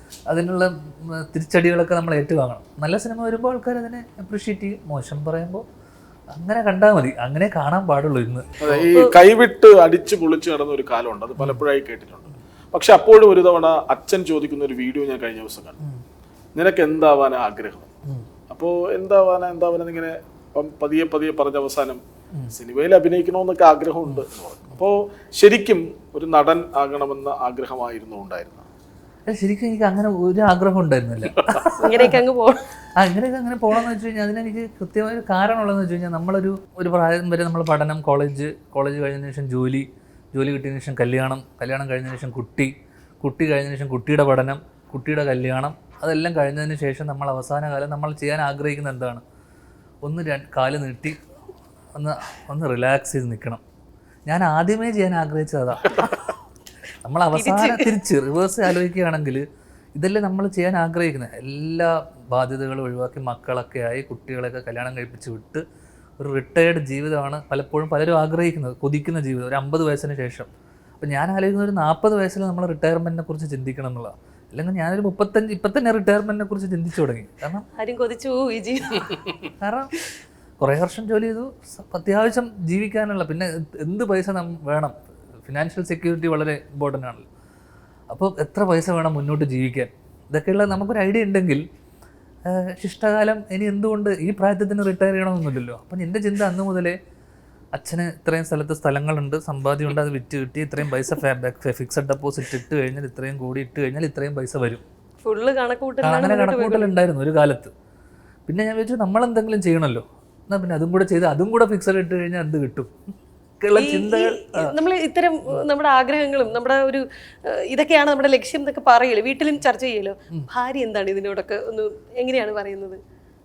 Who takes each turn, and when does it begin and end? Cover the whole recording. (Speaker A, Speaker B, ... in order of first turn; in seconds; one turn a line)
Speaker A: 0.3-5.6
Speaker A: 6.3-8.9
Speaker B: 8.6-15.8
Speaker A: 11.4-11.6
Speaker B: 16.6-17.9
Speaker B: 18.5-22.0
Speaker B: 22.5-28.7
Speaker A: 29.3-32.2
Speaker C: 31.8-32.6
Speaker A: 33.0-49.2
Speaker A: 50.0-51.2
Speaker A: 51.9-53.6
Speaker A: 54.3-56.4
Speaker A: 57.0-65.6
Speaker C: 57.3-57.9
Speaker A: 66.2-70.5
Speaker A: 71.0-77.7
Speaker C: 77.8-79.5
Speaker A: 79.6-79.9
Speaker A: 80.6-87.3
Speaker A: 88.1-91.6
Speaker A: 92.5-97.0
Speaker A: 97.7-104.8
Speaker C: 105.2-106.9
Speaker A: 106.0-107.7
Speaker A: 108.5-112.9
Speaker A: 113.6-114.7
Speaker C: 113.7-123.0